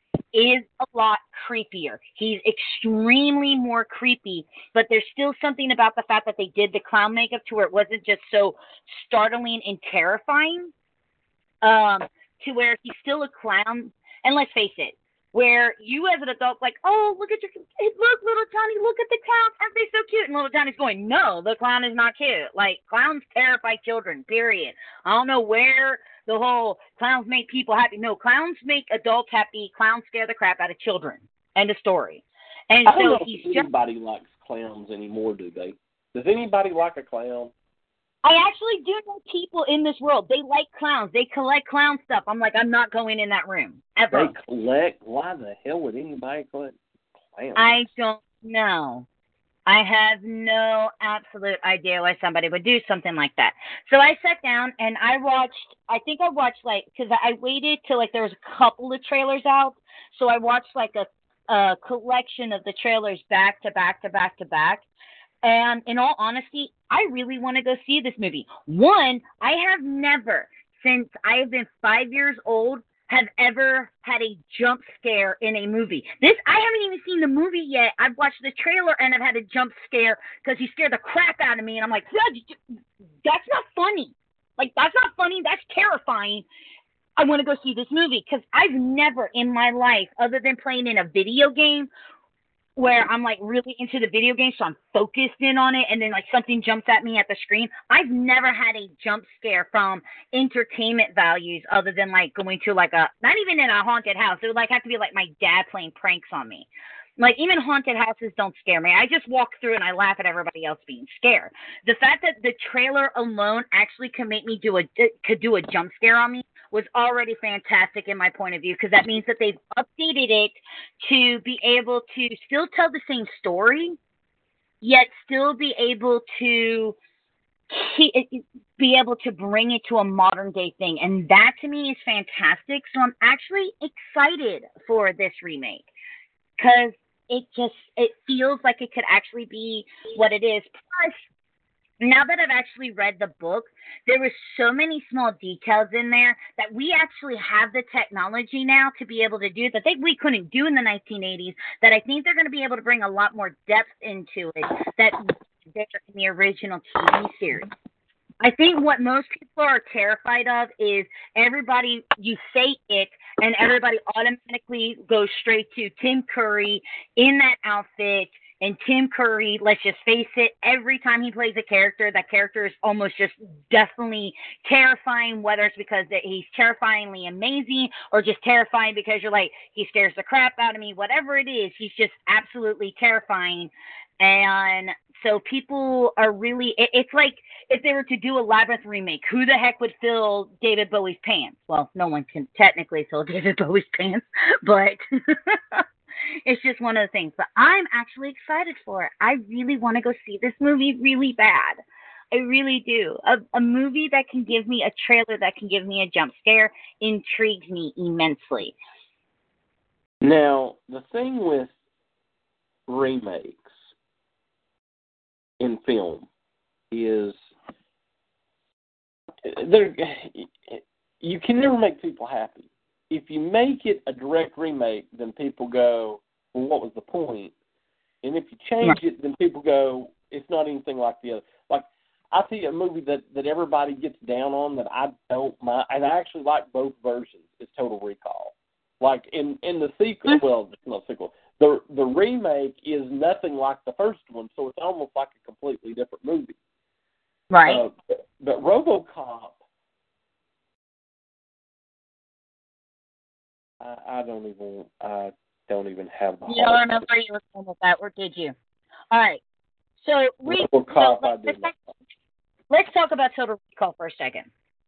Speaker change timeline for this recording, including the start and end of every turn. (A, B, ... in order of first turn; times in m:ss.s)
0:00.3-0:10.7 A
0:11.6-0:33.6 A
0:32.9-0:37.5 B
0:38.2-0:44.3 A
0:44.1-0:47.8 B
0:47.6-0:49.1 A
0:49.7-1:04.8 A
1:05.4-1:22.6 A
1:23.2-1:26.4 A
1:27.2-1:31.9 A
1:32.8-2:04.0 A
2:04.8-2:07.0 A
2:07.7-2:15.9 A
2:16.6-2:21.2 A
2:22.0-2:37.7 A
2:38.4-3:15.8 A
3:16.4-3:28.8 A
3:30.2-3:31.7 B
3:32.9-3:33.8 B
3:35.6-3:36.3 B
3:36.9-3:37.4 B
3:39.4-3:47.5 B
3:48.2-4:06.6 B
4:07.5-4:07.8 A
4:07.6-4:09.6 B
4:13.8-4:17.0 B
4:16.5-4:18.6 A
4:19.1-4:19.4 A
4:20.0-4:21.7 A
4:20.4-4:21.8 B
4:22.7-4:24.5 A